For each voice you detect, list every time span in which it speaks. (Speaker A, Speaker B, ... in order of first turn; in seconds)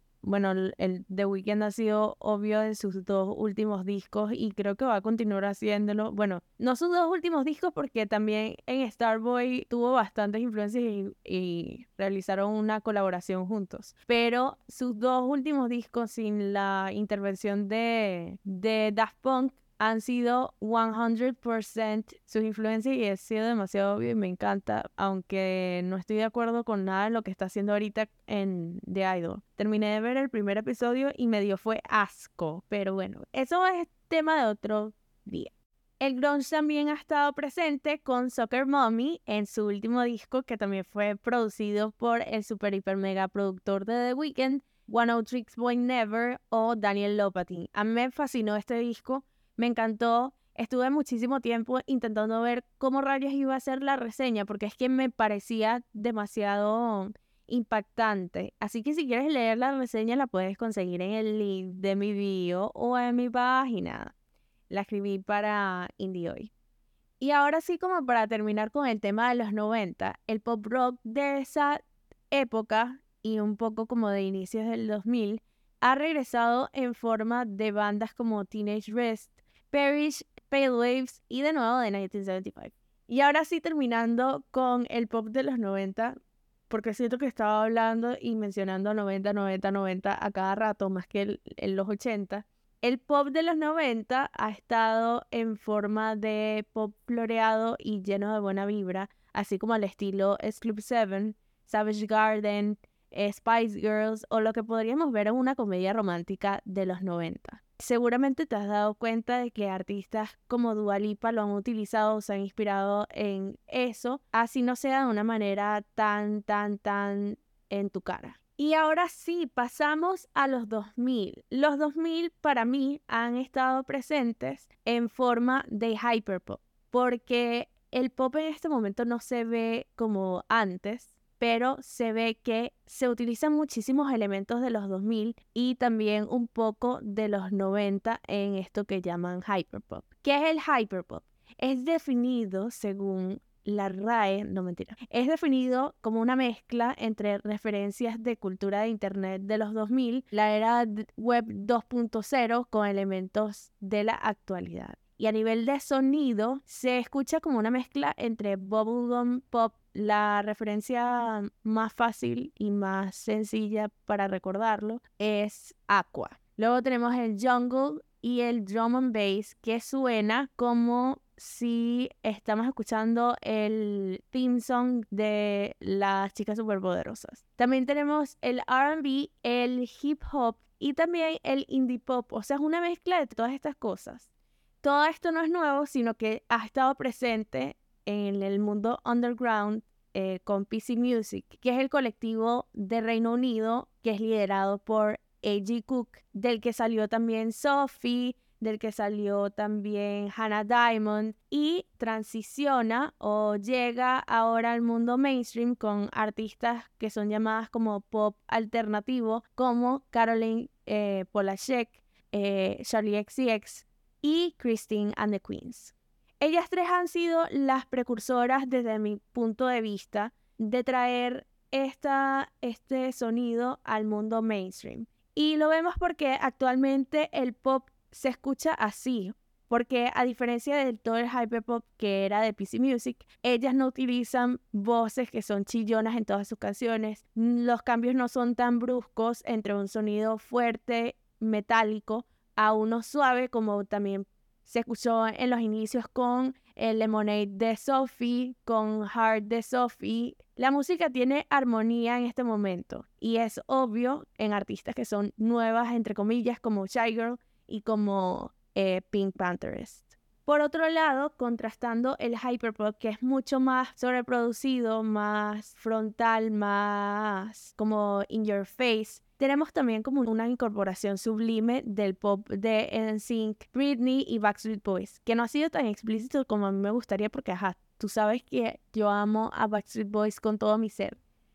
Speaker A: 0.2-64.1, 64.7-66.5, 67.2-86.2, 86.7-184.3, 184.8-281.2